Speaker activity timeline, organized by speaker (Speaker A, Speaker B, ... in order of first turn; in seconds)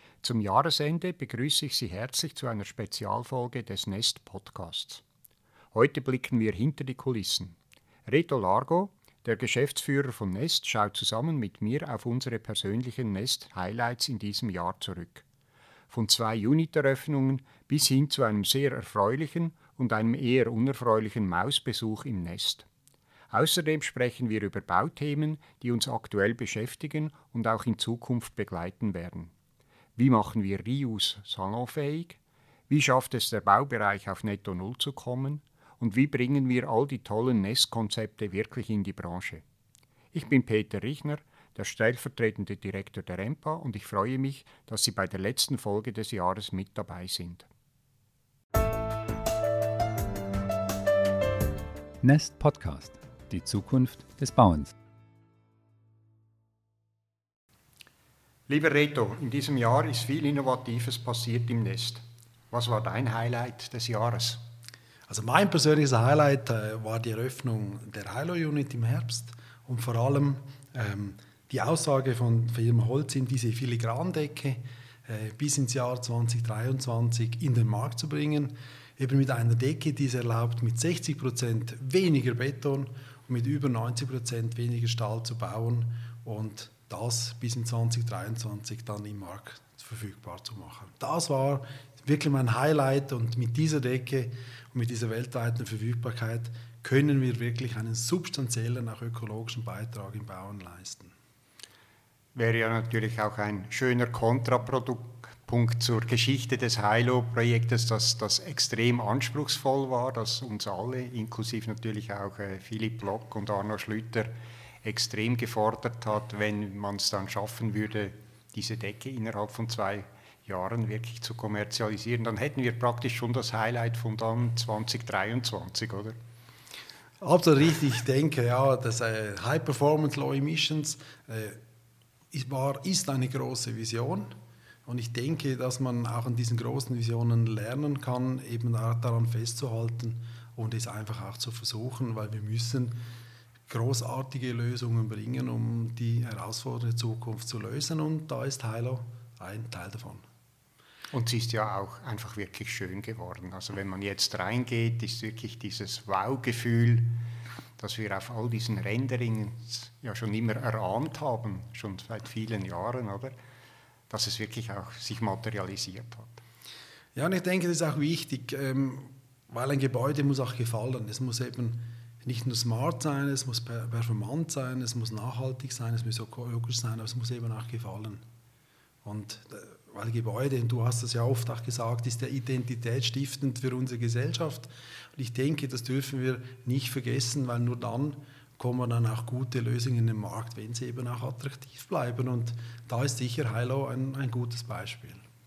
Speaker A: 0.2-5.0, 5.7-15.2, 15.9-22.7, 23.3-29.3, 30.0-32.2, 32.7-39.4, 40.1-47.5, 58.5-64.4, 102.3-126.2, 151.1-157.2, 157.8-163.3, 164.1-166.4
Speaker B: 52.0-54.7
Speaker C: 65.1-101.1, 127.2-131.6, 132.3-134.3, 134.9-143.0, 143.7-150.2, 167.2-178.2, 179.0-195.2